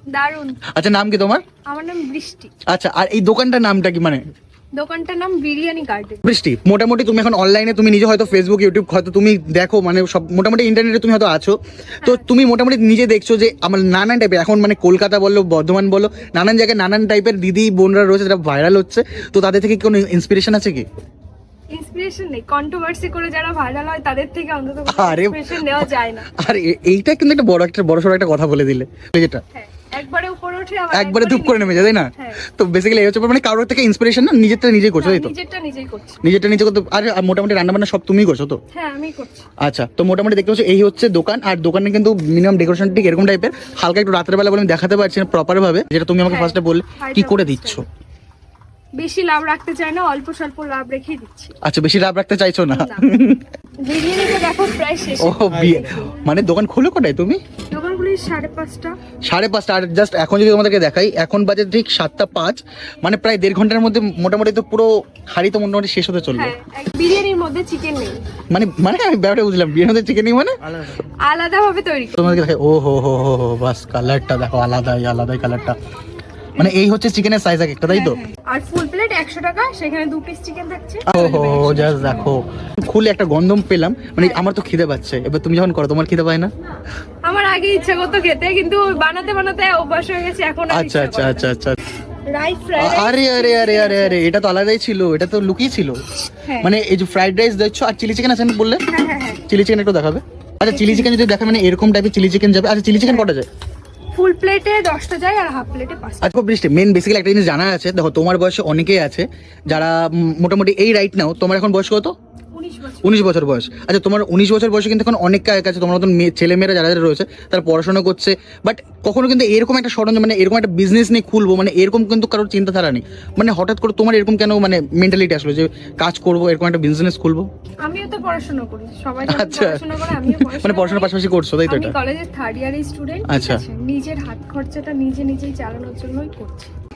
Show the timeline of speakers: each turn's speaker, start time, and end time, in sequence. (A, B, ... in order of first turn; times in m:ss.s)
0:00.1-0:00.6 A
0:00.7-0:01.4 B
0:01.7-0:02.5 A
0:02.7-0:04.2 B
0:04.7-0:06.2 A
0:06.2-0:20.8 B
0:21.7-0:26.3 A
0:24.9-0:29.4 B
0:29.5-0:32.4 A
0:30.9-0:35.3 B
0:35.0-0:36.2 A
0:36.2-0:38.6 B
0:38.7-0:39.5 A
0:39.6-0:47.8 B
0:46.3-0:47.8 A
0:49.0-0:51.5 A
0:51.6-0:53.4 B
0:52.7-0:53.1 A
0:53.8-0:56.1 A
0:55.2-0:57.4 B
0:57.7-0:59.0 A
0:59.2-1:06.5 B
1:06.4-1:08.2 A
1:08.5-1:10.5 B
1:11.0-1:12.4 A
1:12.2-1:15.8 B
1:16.6-1:18.2 B
1:17.9-1:22.3 A
1:21.1-1:26.5 B
1:24.2-1:24.4 A
1:27.2-1:31.5 A
1:30.7-1:31.8 B
1:32.3-1:34.2 A
1:32.8-1:36.0 B
1:36.4-1:36.7 A
1:36.6-1:38.8 B
1:38.9-1:39.4 A
1:39.5-1:43.5 B
1:40.7-1:41.1 A
1:44.1-1:46.3 A
1:46.2-1:52.1 B
1:52.5-1:53.3 A
1:53.0-2:07.5 B
2:07.8-2:11.1 A
2:09.2-2:12.0 B
2:11.7-2:16.7 A
2:13.3-2:13.6 B